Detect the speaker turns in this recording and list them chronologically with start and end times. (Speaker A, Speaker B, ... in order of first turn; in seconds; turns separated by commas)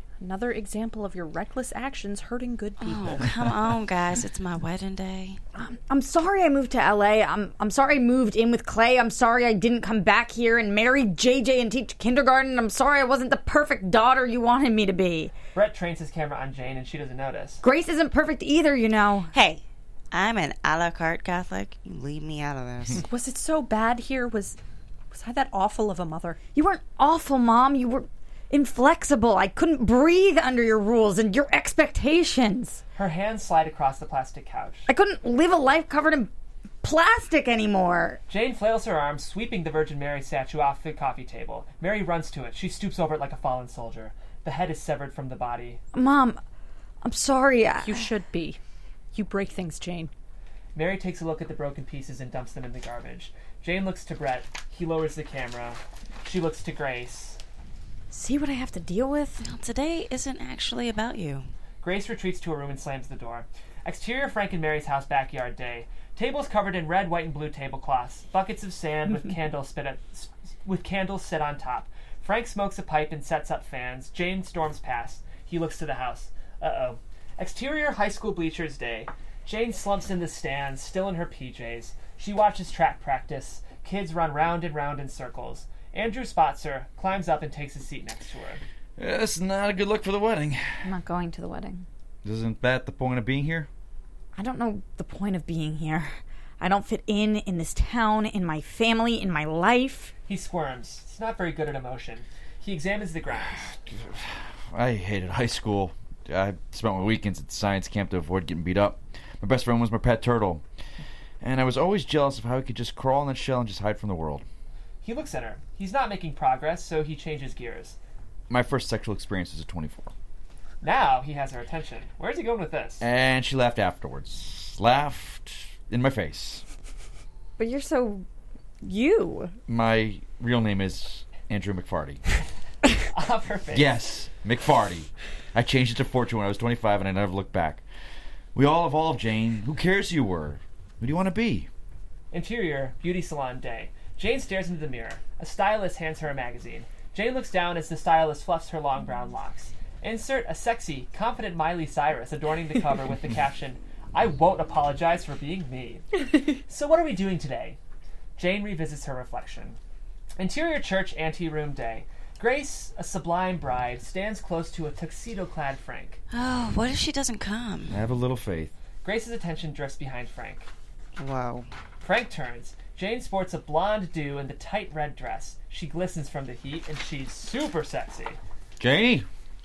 Speaker A: 0.2-3.3, Speaker B: 2.8-5.4, Speaker C: 5.5-15.3, Speaker D: 15.5-17.6, Speaker C: 17.6-19.3, Speaker B: 19.3-23.0, Speaker A: 23.0-24.6, Speaker A: 25.1-26.4, Speaker C: 26.6-32.8, Speaker D: 33.0-34.9, Speaker C: 34.9-36.3, Speaker C: 36.8-38.2, Speaker D: 38.3-45.8, Speaker C: 45.9-46.4, Speaker C: 47.0-48.0, Speaker A: 47.8-48.6, Speaker A: 49.1-50.1, Speaker D: 50.8-57.4, Speaker C: 58.1-59.4, Speaker B: 59.4-61.5, Speaker D: 61.8-88.6, Speaker E: 89.0-90.8, Speaker C: 90.8-91.9, Speaker E: 92.2-93.7, Speaker C: 94.4-100.1, Speaker D: 100.3-103.8, Speaker E: 103.9-110.6, Speaker E: 111.4-114.4, Speaker D: 115.0-118.0, Speaker E: 118.5-120.1, Speaker D: 120.8-123.0, Speaker E: 123.0-126.6, Speaker C: 127.6-128.2, Speaker C: 128.8-129.6, Speaker E: 129.7-132.2, Speaker D: 133.1-133.9, Speaker E: 133.7-137.8, Speaker E: 138.6-141.7, Speaker D: 142.3-157.8, Speaker D: 158.4-159.8, Speaker D: 160.4-166.2, Speaker B: 166.3-168.0, Speaker E: 167.9-168.7, Speaker D: 169.0-170.7, Speaker B: 171.2-171.7, Speaker D: 172.0-178.4, Speaker E: 178.8-179.3